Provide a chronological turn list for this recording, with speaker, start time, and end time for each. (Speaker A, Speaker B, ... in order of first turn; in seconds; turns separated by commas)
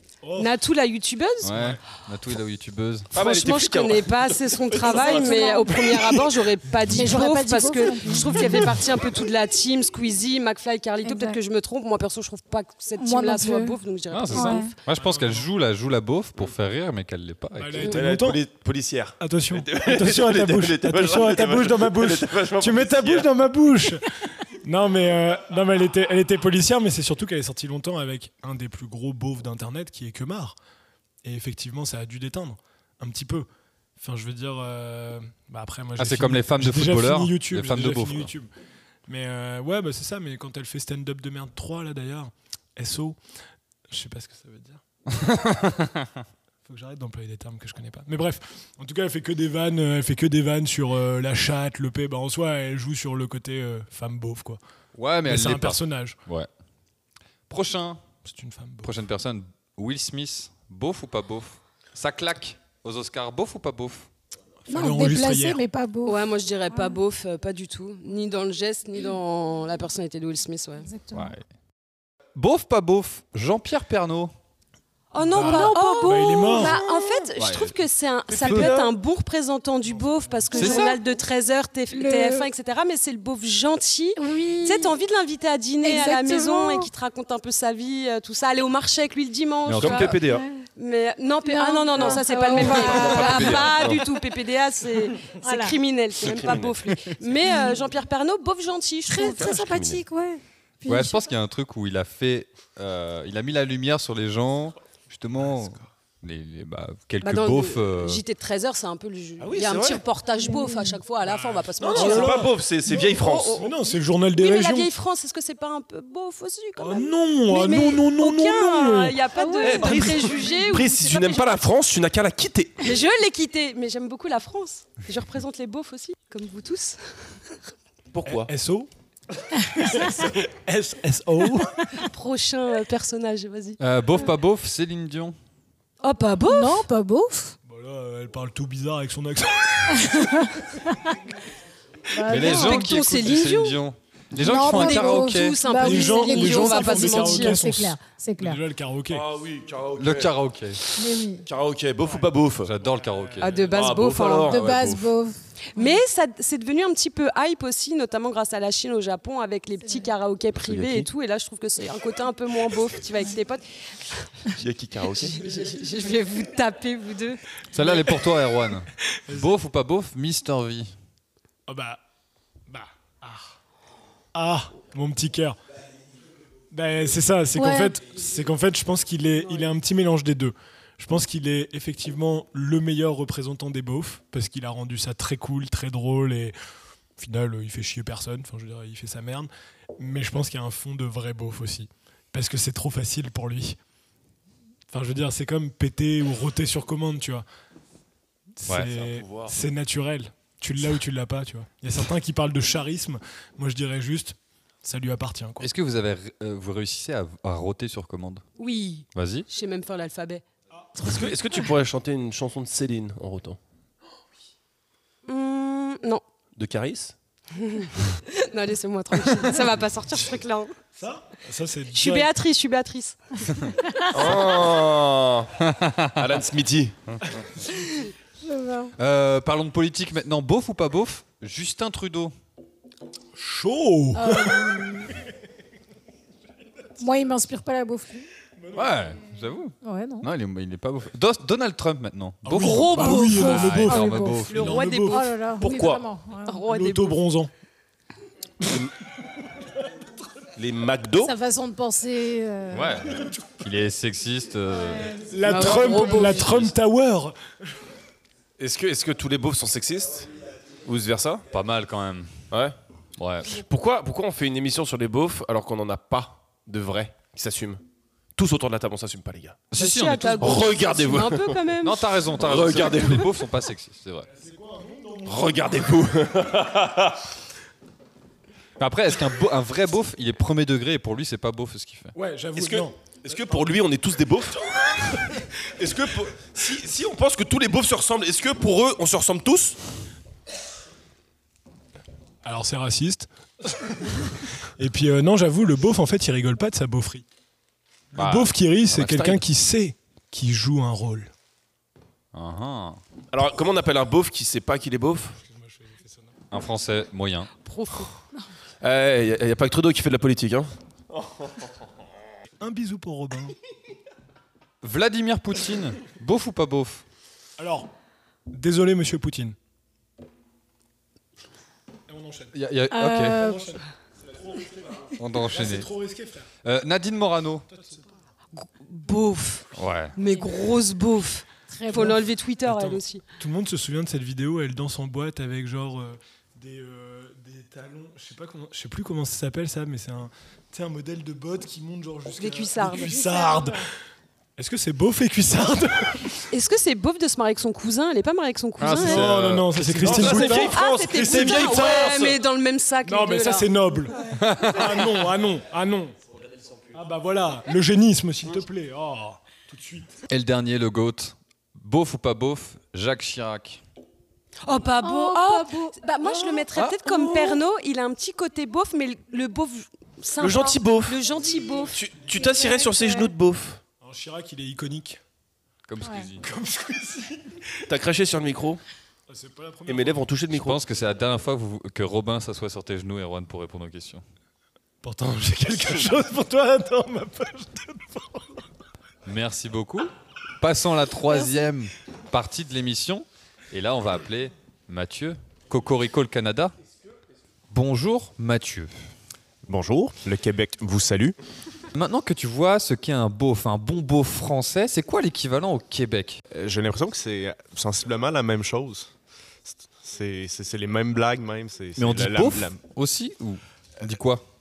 Speaker A: 0.2-0.5, Speaker B: 0.4-1.6, Speaker C: 1.4-3.2, Speaker A: 1.5-1.8, Speaker D: 3.1-6.3, Speaker B: 3.1-14.7, Speaker E: 4.9-5.8, Speaker E: 6.9-8.8, Speaker E: 11.0-11.4, Speaker E: 13.0-13.8, Speaker C: 14.1-17.9, Speaker E: 14.3-14.7, Speaker A: 14.9-15.5, Speaker A: 17.6-18.4, Speaker D: 17.8-23.3, Speaker A: 19.2-30.6, Speaker A: 31.2-33.5, Speaker A: 34.0-38.5, Speaker C: 36.0-38.3, Speaker A: 39.1-43.2, Speaker A: 43.9-44.8, Speaker C: 45.1-46.1, Speaker A: 46.6-54.6, Speaker C: 55.0-56.5, Speaker A: 55.3-56.2, Speaker C: 57.5-58.0, Speaker A: 58.2-59.0, Speaker C: 58.8-64.1, Speaker A: 64.7-65.6, Speaker E: 64.7-67.0, Speaker B: 66.0-70.9, Speaker E: 70.8-71.4, Speaker C: 71.1-71.4, Speaker C: 72.3-74.3, Speaker B: 75.1-99.6, Speaker A: 75.3-76.8, Speaker E: 75.3-77.3, Speaker C: 77.4-77.8, Speaker D: 78.3-78.9, Speaker C: 78.4-78.8, Speaker C: 80.5-81.0, Speaker E: 80.5-81.0, Speaker E: 81.9-82.5, Speaker E: 84.2-84.9, Speaker E: 85.8-86.9, Speaker C: 89.7-90.2, Speaker D: 89.8-90.4, Speaker E: 90.2-90.7, Speaker E: 91.4-93.9, Speaker D: 92.5-94.0, Speaker E: 95.2-95.8, Speaker D: 96.2-96.7, Speaker E: 97.4-97.9, Speaker E: 99.1-101.3, Speaker D: 99.3-100.0, Speaker C: 100.9-108.2, Speaker B: 107.2-112.5, Speaker D: 109.4-110.0, Speaker E: 110.4-111.0, Speaker A: 111.2-114.9, Speaker D: 111.8-113.6, Speaker B: 113.0-113.7, Speaker B: 114.4-121.6, Speaker A: 116.8-119.2, Speaker E: 119.4-120.2, Speaker D: 119.6-122.9, Speaker A: 119.8-120.1, Speaker B: 122.8-127.4, Speaker D: 128.1-128.5, Speaker A: 128.2-128.9, Speaker A: 129.4-131.9, Speaker E: 129.8-130.3, Speaker B: 132.0-133.8, Speaker C: 133.8-135.4, Speaker B: 136.0-136.9, Speaker E: 136.5-137.6, Speaker A: 137.7-140.5, Speaker E: 139.9-141.2, Speaker E: 142.1-143.0, Speaker C: 142.3-145.6, Speaker B: 142.3-143.8, Speaker E: 144.3-148.6, Speaker B: 144.6-147.6, Speaker A: 145.8-149.3, Speaker D: 149.1-150.3, Speaker C: 150.0-150.8, Speaker E: 151.0-151.5, Speaker D: 151.5-152.7, Speaker C: 152.6-153.6, Speaker A: 153.1-153.5, Speaker B: 153.4-154.7, Speaker D: 153.6-155.1, Speaker E: 154.5-156.0, Speaker B: 155.7-164.3, Speaker E: 159.8-160.1, Speaker D: 164.6-165.4, Speaker B: 165.2-167.4, Speaker C: 167.7-170.9, Speaker A: 169.3-169.6, Speaker A: 171.7-172.0, Speaker A: 172.7-173.6, Speaker A: 174.3-175.6, Speaker A: 176.7-186.6, Speaker E: 177.6-178.0, Speaker A: 187.2-193.8, Speaker A: 194.9-197.5, Speaker A: 198.6-205.7, Speaker D: 198.8-199.6, Speaker C: 205.6-208.4, Speaker B: 208.6-210.4, Speaker C: 209.1-209.5, Speaker D: 211.0-213.6, Speaker B: 215.3-216.2, Speaker D: 216.6-217.2, Speaker B: 217.6-220.7, Speaker A: 221.0-222.3, Speaker B: 221.9-223.2, Speaker E: 223.7-224.3, Speaker D: 224.1-225.5, Speaker C: 225.6-226.2, Speaker D: 226.2-226.9, Speaker E: 228.4-228.9, Speaker C: 229.0-232.3, Speaker A: 233.4-235.1, Speaker E: 234.1-235.1, Speaker E: 237.0-238.3, Speaker C: 238.7-244.8, Speaker E: 239.8-240.3, Speaker A: 242.4-245.2, Speaker B: 242.6-243.6, Speaker E: 242.9-246.7, Speaker B: 244.5-245.6, Speaker D: 245.6-246.0, Speaker B: 246.5-247.2, Speaker A: 246.7-247.5, Speaker D: 250.6-251.3, Speaker E: 251.2-253.2, Speaker C: 252.7-255.1, Speaker E: 254.7-256.4, Speaker A: 255.3-257.4, Speaker B: 255.4-256.5, Speaker C: 256.2-256.7, Speaker D: 258.6-260.3, Speaker D: 260.9-261.5, Speaker C: 261.5-262.3, Speaker D: 262.5-262.8, Speaker C: 263.2-263.6, Speaker D: 263.5-267.8, Speaker D: 268.4-269.7, Speaker C: 269.7-270.8, Speaker B: 269.7-272.3, Speaker D: 270.4-271.6, Speaker C: 271.8-274.3, Speaker D: 272.3-273.3, Speaker A: 274.3-276.0, Speaker D: 275.3-277.2, Speaker C: 278.8-282.1, Speaker A: 282.1-283.4, Speaker D: 282.6-289.8, Speaker A: 292.4-293.3, Speaker A: 293.9-297.2, Speaker A: 298.1-301.3, Speaker C: 298.1-298.5, Speaker D: 298.9-299.4, Speaker C: 302.3-303.0, Speaker D: 303.3-305.4, Speaker A: 305.4-306.3, Speaker C: 306.5-307.5, Speaker B: 307.6-308.1, Speaker D: 308.8-310.7, Speaker A: 312.6-313.6, Speaker C: 314.8-317.0, Speaker A: 317.6-317.9, Speaker A: 318.5-319.6, Speaker A: 322.1-322.6, Speaker C: 322.5-323.5, Speaker E: 322.9-323.8, Speaker A: 323.3-326.5, Speaker C: 325.2-325.9, Speaker C: 326.6-327.7, Speaker A: 327.7-328.1, Speaker B: 328.6-333.2, Speaker C: 329.8-330.1, Speaker E: 331.6-332.3, Speaker A: 331.9-343.8, Speaker B: 342.4-343.3, Speaker E: 343.0-343.8, Speaker A: 344.6-346.4, Speaker B: 346.5-349.3, Speaker C: 348.8-350.5, Speaker A: 348.9-351.9, Speaker D: 349.8-352.4, Speaker B: 350.3-353.7, Speaker A: 353.0-356.2, Speaker C: 354.3-355.1, Speaker A: 356.9-360.1, Speaker C: 360.3-363.8, Speaker B: 364.6-372.0, Speaker E: 365.0-366.6, Speaker D: 366.7-367.6, Speaker D: 370.4-371.2, Speaker D: 371.9-373.8, Speaker E: 372.4-373.3, Speaker A: 374.0-375.2, Speaker C: 375.9-376.4, Speaker E: 376.0-376.3, Speaker A: 376.4-377.9, Speaker D: 377.9-378.8, Speaker A: 379.3-380.3, Speaker D: 379.9-380.8, Speaker C: 380.5-384.2, Speaker A: 385.0-388.6, Speaker C: 389.2-396.8, Speaker C: 397.7-398.9, Speaker F: 399.7-401.4, Speaker C: 401.9-406.4, Speaker F: 406.5-409.1, Speaker F: 409.7-412.8, Speaker C: 412.0-414.4